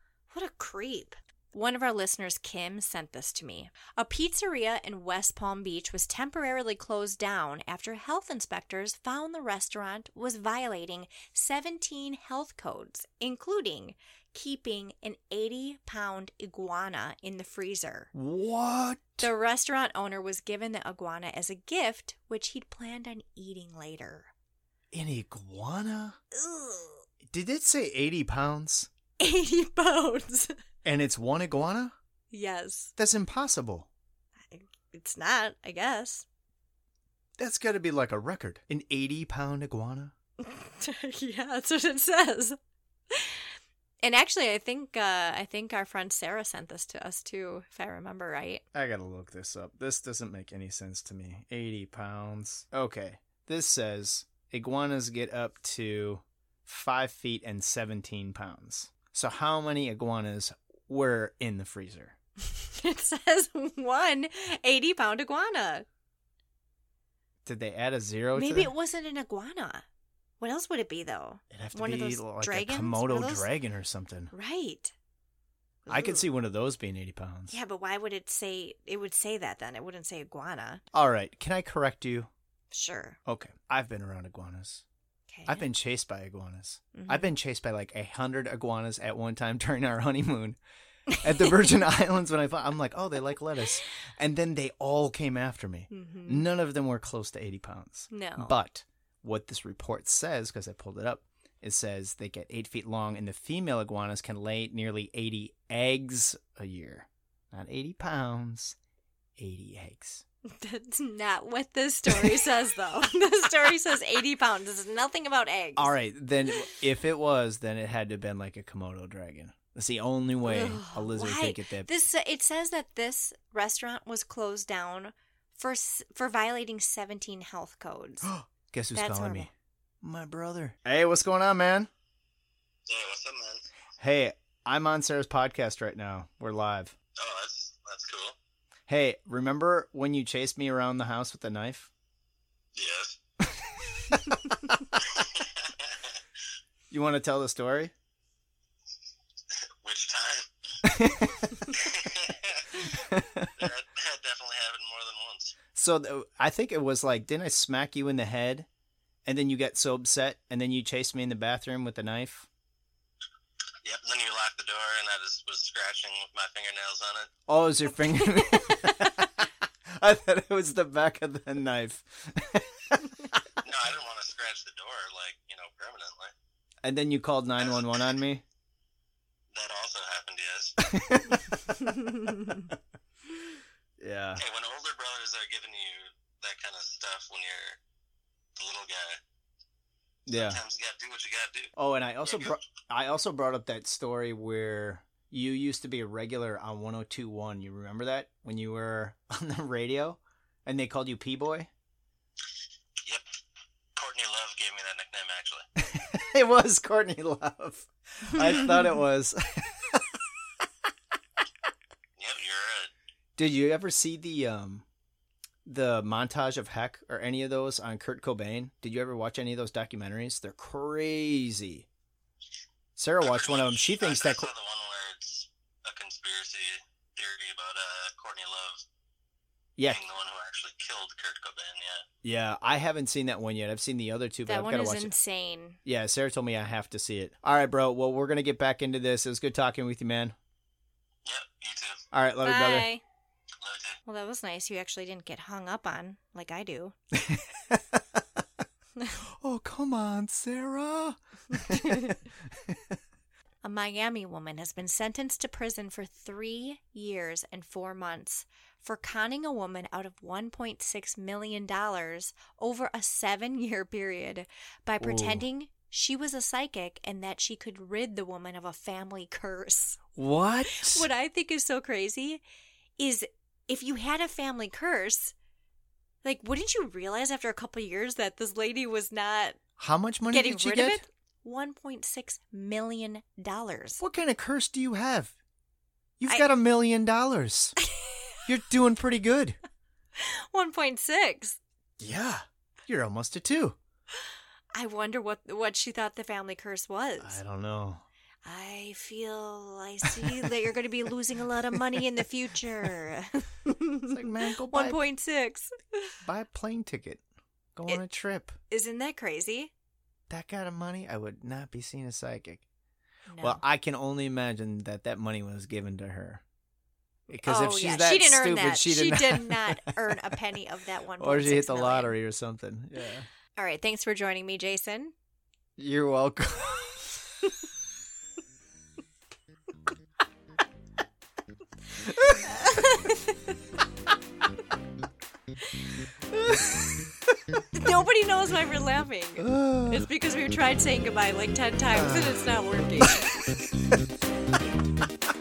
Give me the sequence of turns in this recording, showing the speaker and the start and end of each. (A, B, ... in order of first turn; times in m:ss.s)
0:00.3-0:18.1 A
0:18.1-0:19.3 B
0:19.2-0:24.3 A
0:24.9-0:26.2 B
0:26.3-0:27.0 A
0:27.3-0:28.9 B
0:29.2-0:30.6 A
0:30.8-0:31.9 B
0:32.3-0:32.9 A
0:33.0-0:33.9 B
0:34.5-0:36.2 A
0:37.4-0:40.1 B
0:40.4-0:42.6 A
0:43.1-0:43.5 A
0:44.0-0:48.6 A
0:48.7-1:02.2 B
1:02.4-1:05.8 A
1:07.4-1:08.7 B
1:08.3-1:09.8 A
1:10.4-1:13.5 A
1:11.5-1:14.3 B
1:14.3-1:14.9 A
1:15.8-1:16.3 A
1:15.9-1:17.5 B
1:17.5-1:20.8 A
1:20.9-1:22.3 B
1:22.7-1:23.2 A
1:23.2-1:24.8 B
1:25.3-1:25.7 A
1:25.5-1:30.6 B
1:26.9-1:27.3 A
1:31.1-1:31.6 A
1:31.2-1:48.8 B
1:35.9-1:36.5 A
1:38.1-1:38.5 A
1:49.4-1:50.2 B
1:50.5-1:55.9 A
1:52.1-1:52.4 B
1:55.8-2:01.9 B
2:00.4-2:08.3 A
2:08.2-2:09.5 B
2:08.9-2:09.5 A
2:10.0-2:11.9 B
2:12.8-2:13.6 C
2:14.0-2:16.9 B
2:17.2-2:18.4 C
2:18.9-2:21.9 B
2:22.7-2:23.2 C
2:23.4-2:24.8 B
2:25.1-2:25.9 C
2:26.9-2:27.9 B
2:29.8-2:30.5 C
2:30.8-2:31.7 B
2:31.7-2:32.9 C
2:32.9-2:33.7 B
2:33.6-2:35.5 C
2:35.7-2:38.7 B
2:39.2-2:42.5 B
2:43.8-2:47.3 C
2:47.5-2:53.4 B
2:48.2-2:48.8 A
2:53.6-2:56.3 C
2:56.8-2:58.4 B
2:57.6-2:58.0 C
2:59.5-3:00.8 C
3:00.8-3:01.9 B
3:01.7-3:02.7 A
3:02.4-3:02.8 B
3:04.0-3:04.4 B
3:04.4-3:07.8 C
3:08.6-3:09.2 C
3:10.3-3:10.6 B
3:10.3-3:11.7 C
3:11.8-3:21.7 B
3:12.2-3:12.5 C
3:24.0-3:25.6 C
3:25.8-3:30.2 B
3:32.2-3:32.9 C
3:33.4-3:34.8 B
3:35.6-3:41.8 B
3:43.0-3:44.5 B
3:43.2-3:48.8 C
3:49.8-3:52.0 C
3:52.2-3:55.1 B
3:54.4-3:55.8 A
3:55.8-4:00.4 B
4:01.2-4:02.0 C
4:02.1-4:02.9 B
4:02.4-4:03.0 A
4:03.6-4:04.0 C
4:04.0-4:07.0 A
4:07.2-4:08.0 B
4:09.4-4:12.8 B
4:13.6-4:30.0 A
4:25.0-4:25.4 B
4:30.2-4:31.1 B
4:30.7-4:32.4 A
4:33.0-4:35.3 A
4:36.2-4:39.6 A
4:39.8-4:41.0 B
4:40.3-4:44.0 A
4:44.0-4:45.3 B
4:46.2-4:47.8 B
4:47.8-4:48.5 A
4:48.4-4:49.6 B
4:50.2-4:51.6 A
4:52.0-4:53.8 B
4:54.7-4:57.4 A
4:57.2-4:58.0 B
4:58.4-5:06.1 A
5:04.1-5:05.0 B
5:06.2-5:07.2 B
5:07.7-5:08.6 B
5:08.7-5:09.7 A
5:10.3-5:12.6 B
5:13.3-5:13.6 A
5:13.4-5:16.4 B
5:17.3-5:19.9 B
5:17.3-5:22.1 A
5:21.2-5:23.3 B
5:23.6-5:25.1 A
5:25.8-5:27.2 B
5:32.2-5:33.6 A
5:36.3-5:37.1 B
5:37.8-5:43.3 A
5:39.4-5:40.1 B
5:41.9-5:44.0 B